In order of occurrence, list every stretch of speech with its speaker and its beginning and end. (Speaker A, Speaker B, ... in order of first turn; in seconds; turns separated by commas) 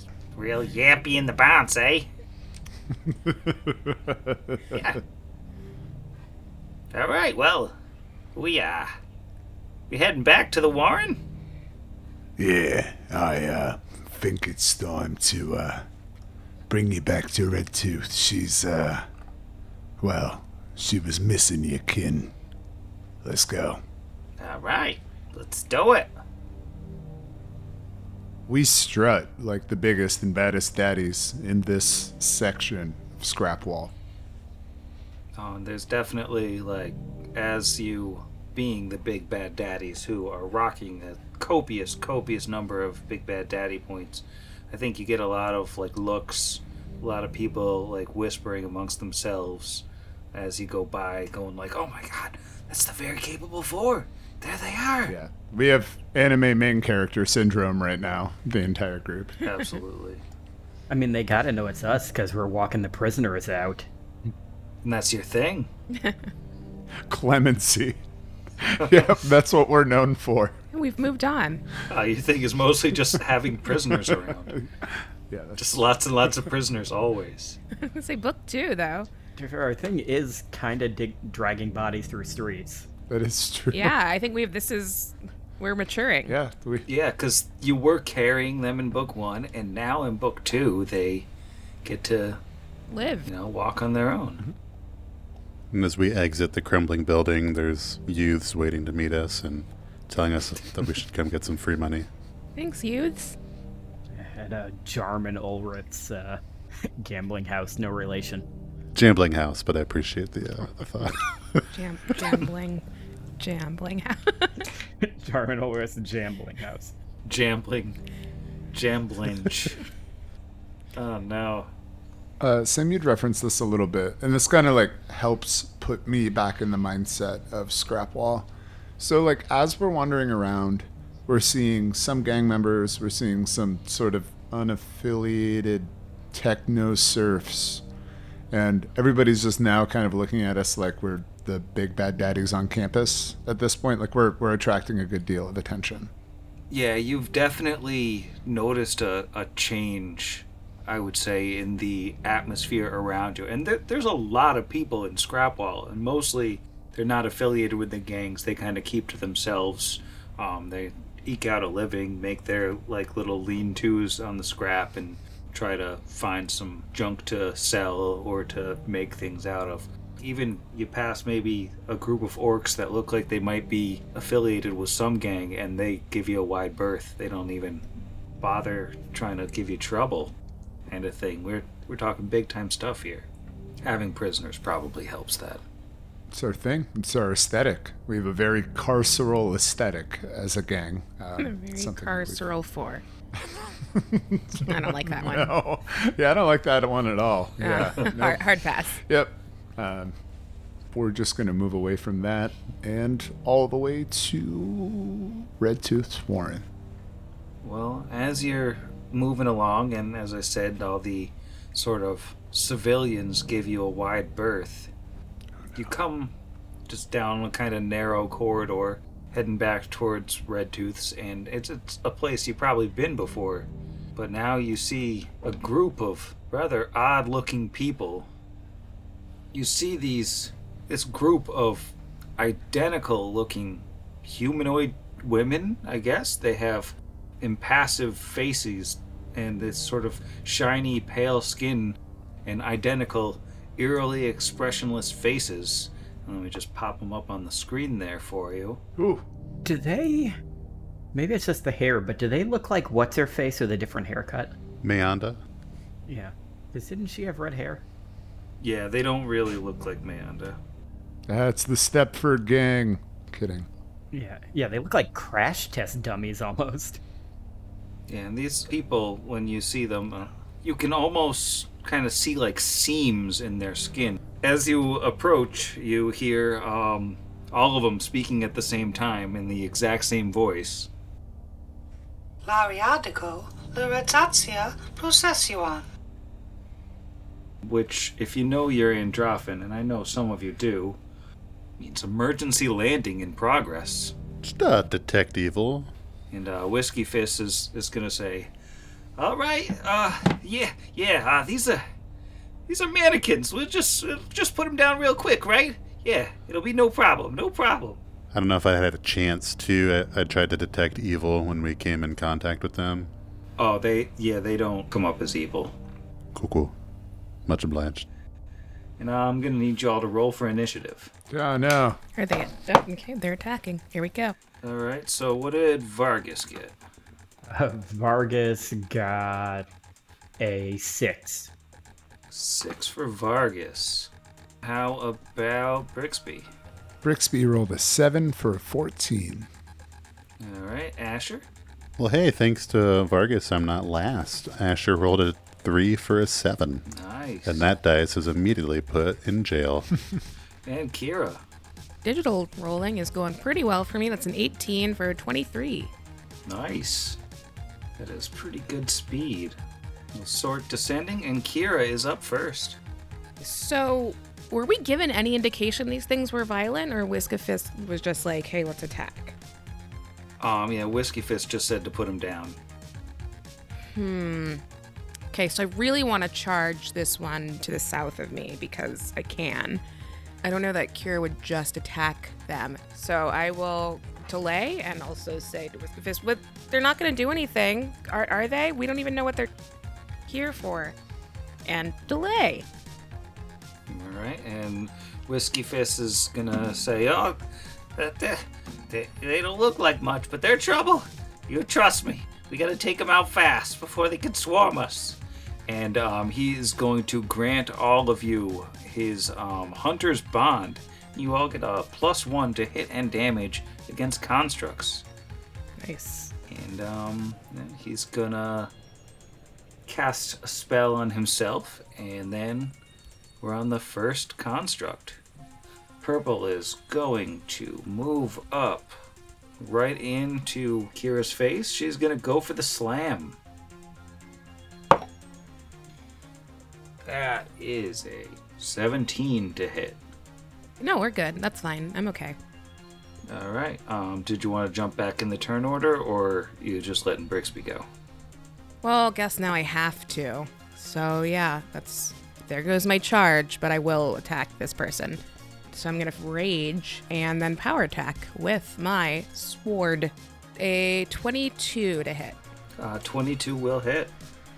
Speaker A: 0.3-2.1, Speaker B: 3.1-4.6, Speaker A: 4.7-5.0, Speaker A: 6.9-7.7, Speaker A: 8.3-8.9, Speaker A: 9.9-11.2, Speaker C: 12.4-15.8, Speaker C: 16.7-19.1, Speaker C: 20.0-22.3, Speaker C: 23.2-23.8, Speaker A: 24.4-26.1, Speaker B: 28.5-33.9, Speaker A: 35.3-55.1, Speaker B: 55.1-59.4, Speaker A: 59.4-60.2, Speaker D: 60.9-63.9, Speaker A: 64.8-65.7, Speaker B: 67.1-68.0, Speaker B: 68.6-70.5, Speaker A: 68.8-69.3, Speaker E: 70.7-71.6, Speaker A: 71.9-74.6, Speaker B: 74.5-75.8, Speaker A: 75.6-77.6, Speaker E: 77.8-79.1, Speaker D: 79.4-82.9, Speaker B: 83.1-83.9, Speaker E: 83.7-86.3, Speaker B: 86.3-86.8, Speaker A: 86.8-91.3, Speaker A: 91.8-92.4, Speaker E: 92.9-93.3, Speaker A: 93.2-94.5, Speaker F: 95.7-102.1, Speaker E: 102.6-103.4, Speaker D: 104.1-108.5, Speaker F: 108.9-111.7, Speaker E: 111.7-112.8, Speaker E: 113.4-114.7, Speaker D: 115.0-116.9, Speaker A: 117.2-118.0, Speaker A: 118.7-119.8, Speaker A: 120.9-121.7, Speaker B: 122.4-137.8, Speaker B: 138.5-146.1, Speaker A: 146.7-177.8, Speaker A: 178.4-180.3, Speaker A: 180.9-183.3, Speaker A: 183.8-185.6, Speaker B: 186.3-192.4, Speaker E: 191.4-193.0, Speaker B: 193.4-200.2, Speaker E: 194.6-195.5, Speaker E: 197.6-199.0, Speaker B: 200.9-206.7, Speaker A: 207.6-214.9, Speaker A: 215.7-216.3, Speaker A: 216.9-228.3, Speaker A: 229.5-248.8, Speaker B: 249.0-249.2, Speaker D: 249.6-250.3, Speaker D: 251.1-254.5, Speaker F: 254.8-255.4, Speaker D: 256.1-257.8, Speaker A: 258.6-260.6, Speaker B: 261.3-263.7, Speaker D: 264.1-267.0, Speaker A: 268.1-280.9, Speaker G: 282.4-285.8, Speaker A: 287.6-291.0, Speaker A: 291.8-294.1, Speaker F: 294.4-295.9, Speaker A: 296.3-298.5, Speaker A: 299.2-301.8, Speaker A: 302.7-308.0, Speaker F: 308.3-313.1, Speaker A: 313.6-315.7, Speaker F: 316.3-316.7, Speaker F: 317.4-318.1, Speaker A: 319.0-321.1, Speaker B: 321.3-322.0, Speaker E: 322.1-324.4, Speaker A: 324.6-326.8, Speaker D: 327.5-329.7, Speaker D: 330.4-331.5, Speaker A: 332.3-334.1, Speaker A: 334.6-336.5, Speaker B: 337.0-339.5, Speaker A: 340.4-341.4, Speaker F: 342.0-346.8, Speaker A: 346.9-347.6, Speaker F: 347.4-349.9, Speaker A: 350.6-351.4, Speaker E: 352.0-355.9, Speaker A: 356.5-357.2, Speaker A: 358.0-359.6, Speaker A: 360.1-362.8, Speaker E: 363.4-369.3, Speaker A: 370.4-372.6, Speaker E: 373.9-374.6, Speaker E: 375.3-379.8, Speaker E: 380.4-389.5, Speaker E: 390.3-390.9, Speaker E: 391.6-392.6, Speaker A: 393.9-397.4, Speaker A: 397.9-415.0, Speaker E: 415.8-416.3, Speaker A: 416.5-418.7, Speaker A: 419.9-422.7, Speaker A: 423.4-425.2, Speaker A: 426.0-429.0, Speaker A: 429.6-433.4, Speaker A: 437.0-440.0, Speaker E: 440.8-442.4, Speaker A: 443.3-447.9, Speaker E: 448.8-462.4, Speaker A: 462.8-464.1